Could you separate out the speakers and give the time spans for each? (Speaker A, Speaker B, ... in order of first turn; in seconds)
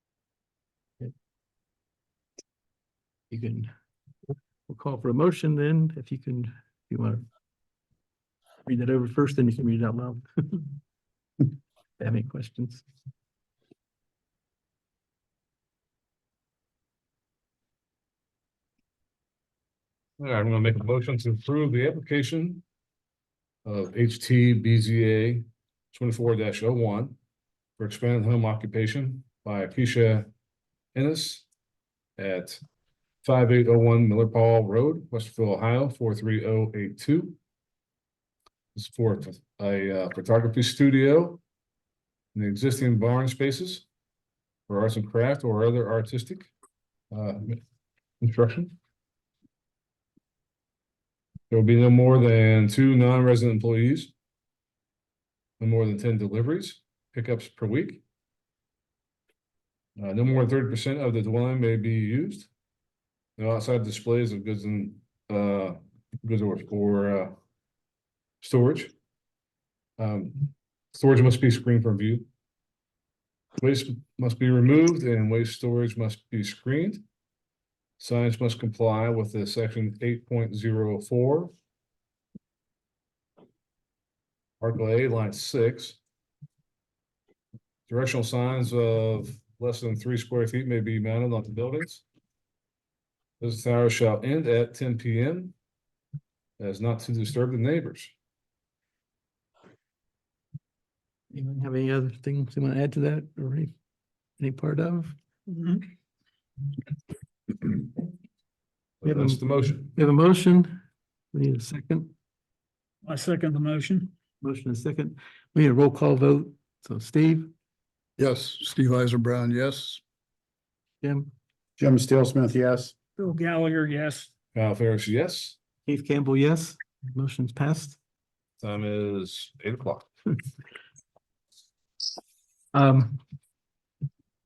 Speaker A: 3.3-3.7, 4.7-7.2, 8.7-10.7, 12.0-12.8, 101.3-103.7, 104.4-105.2, 109.0-109.4, 109.9-110.8, 111.3-112.1, 114.4-117.5, 125.8-128.0, 132.7-133.2
Speaker B: 20.2-22.6, 23.6-27.2, 27.8-30.3, 30.9-31.5, 32.2-32.6, 33.2-37.4, 38.7-41.4, 42.3-43.9, 44.7-46.5, 47.1-47.6, 48.2-48.7, 51.5-54.1, 55.6-58.0, 60.0-62.5, 63.4-67.3, 68.4-68.9, 70.0-72.2, 73.6-77.0, 78.0-81.5, 84.6-86.0, 87.9-92.0, 93.4-95.5, 96.6-98.1, 109.0-109.9, 124.5-125.6, 128.6-130.1
Speaker C: 105.5-105.8, 113.0-114.1, 123.2-124.3
Speaker D: 118.2-120.0, 121.8-123.0